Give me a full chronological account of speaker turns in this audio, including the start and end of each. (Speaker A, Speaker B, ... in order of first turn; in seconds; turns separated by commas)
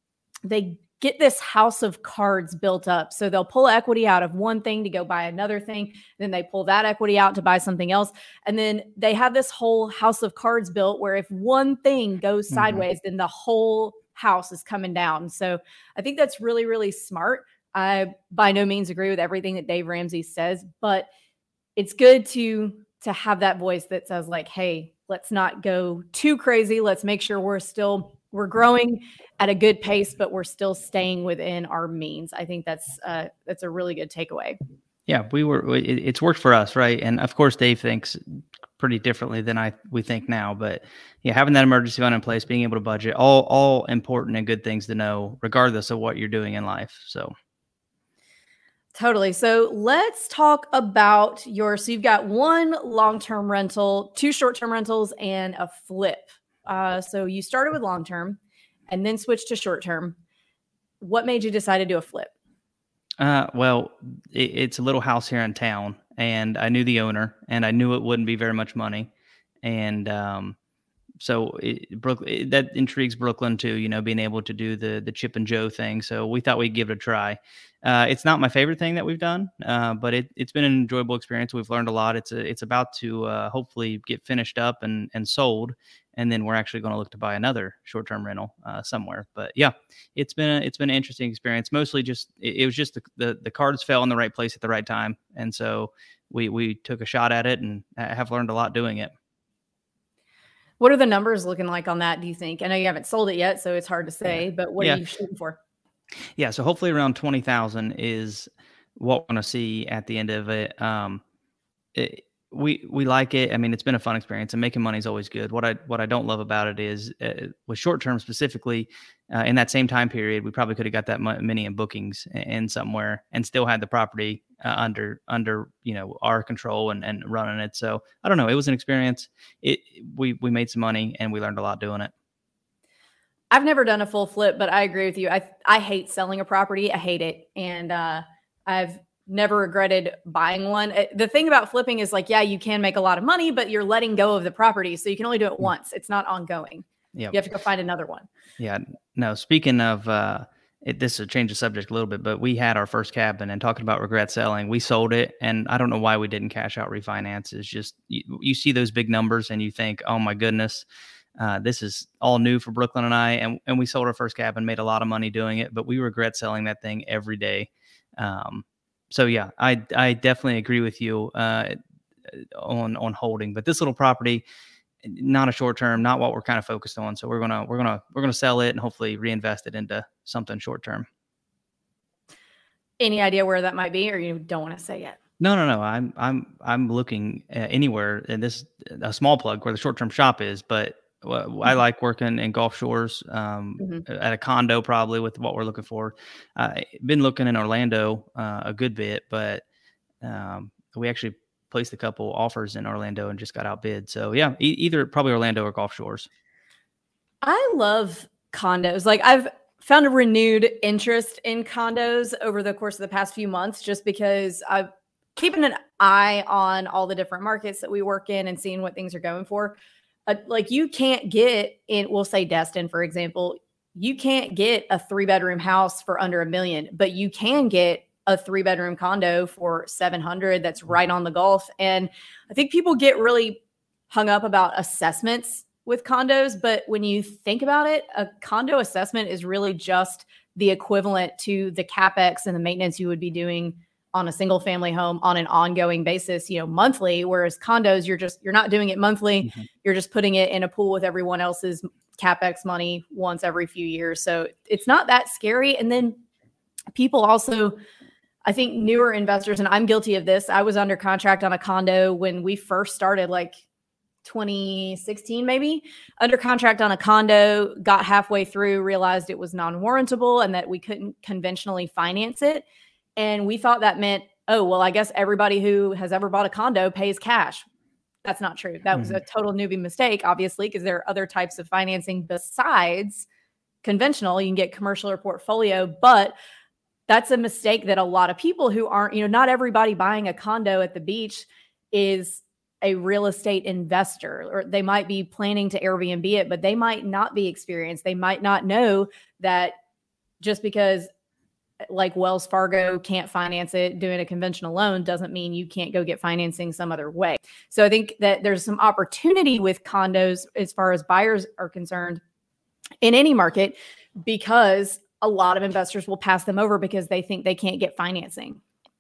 Speaker A: 0.5-21.1, Speaker B: 12.5-12.8, Speaker A: 21.8-34.6, Speaker B: 35.1-38.2, Speaker B: 38.8-47.3, Speaker A: 49.0-60.2, Speaker A: 61.0-62.3, Speaker B: 63.2-69.1, Speaker B: 69.6-70.6, Speaker B: 71.2-99.1, Speaker A: 100.8-105.6, Speaker B: 106.4-111.2, Speaker B: 111.9-132.1, Speaker A: 133.5-148.3, Speaker B: 148.6-160.8, Speaker B: 161.4-174.4, Speaker B: 175.0-181.1, Speaker A: 183.0-185.2, Speaker B: 185.4-199.6, Speaker B: 200.2-206.3, Speaker A: 207.4-256.2, Speaker A: 256.9-257.8, Speaker A: 258.4-263.6, Speaker A: 264.2-272.6, Speaker A: 273.2-277.6, Speaker A: 278.2-283.3, Speaker B: 278.9-279.2, Speaker A: 283.8-286.4, Speaker A: 287.1-299.8, Speaker A: 300.4-301.1, Speaker A: 301.9-312.2, Speaker A: 313.0-318.6